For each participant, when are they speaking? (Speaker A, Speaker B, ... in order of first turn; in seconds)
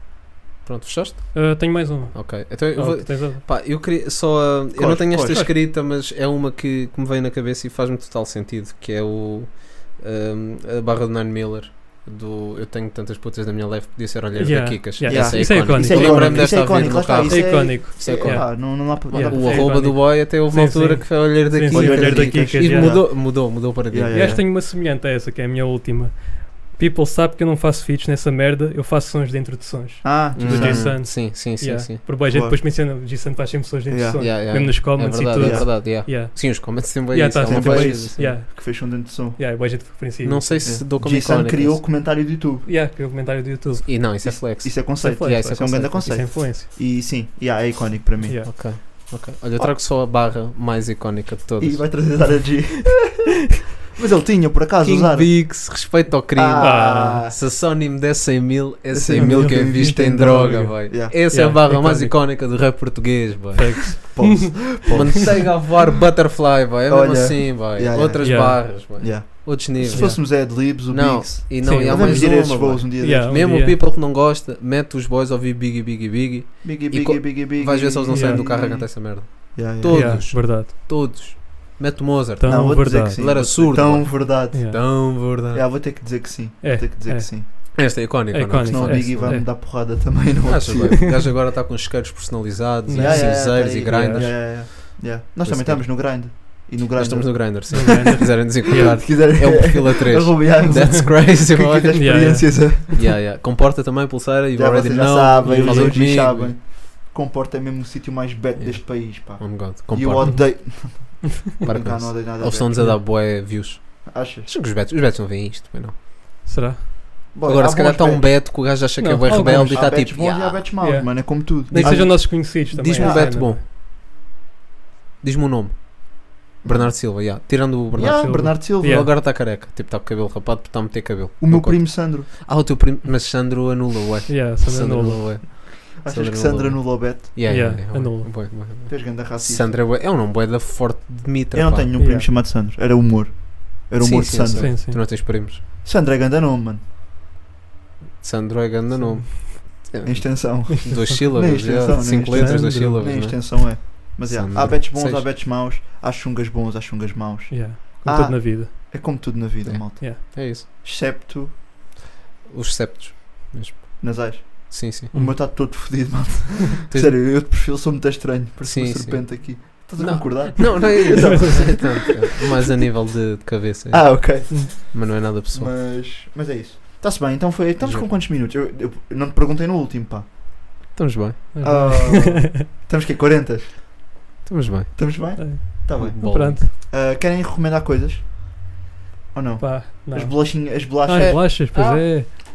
Speaker A: 0.6-24.4, 30.4-32.1, 34.2-38.3, 40.2-41.8, 43.9-46.3, 48.5-52.5, 54.8-85.6, 87.8-89.6, 90.5-106.5, 108.6-110.7, 111.6-116.0, 117.5-121.0, 121.7-123.7, 125.2-142.0, 144.0-145.6, 148.2-155.3, 159.6-160.7, 162.5-165.1, 166.9-167.4, 168.6-175.8, 177.8-178.1, 180.9-181.5, 184.5-186.6, 191.1-192.1
Speaker B: 1.3-3.4, 5.3-5.5, 14.3-23.0, 24.1-40.8, 42.6-44.2, 45.0-46.7, 48.2-48.6, 56.6-57.3, 59.2-62.2, 63.6-65.0, 68.2-70.2, 71.6-73.8, 78.1-78.5, 79.9-80.7, 82.4-83.5, 84.5-84.8, 86.6-90.1, 92.9-94.3, 97.8-99.0, 100.7-101.1, 102.0-102.6, 105.4-106.0, 110.2-111.2, 116.5-116.9, 119.0-120.0, 120.8-123.6, 128.0-129.1, 134.3-135.3, 137.4-138.5, 142.0-142.3, 144.6-145.0, 150.8-151.3, 152.3-153.1, 157.5-158.7, 165.1-166.0, 170.6-172.0, 181.5-182.7, 185.4-186.7, 189.6-192.3
Speaker C: 4.7-5.4, 15.1-19.9, 21.7-24.4, 30.0-31.0, 32.3-32.6, 33.9-36.0, 37.5-39.4, 40.6-42.7, 44.2-49.1, 51.6-53.5, 54.0-55.8, 56.3-57.4, 58.9-61.2, 64.1-65.8, 66.9-73.4, 76.6-80.3, 82.4-87.9, 88.6-91.2, 92.9-103.1, 104.5-113.2, 114.1-114.5, 117.3-118.3, 119.3-123.5, 126.6-127.4, 127.9-129.1, 131.4-132.3, 135.5-137.6, 138.9-139.7, 141.5-146.8, 150.0-161.6, 164.0-172.1, 173.9-180.3, 181.6-183.8, 185.0-188.3, 189.3-191.5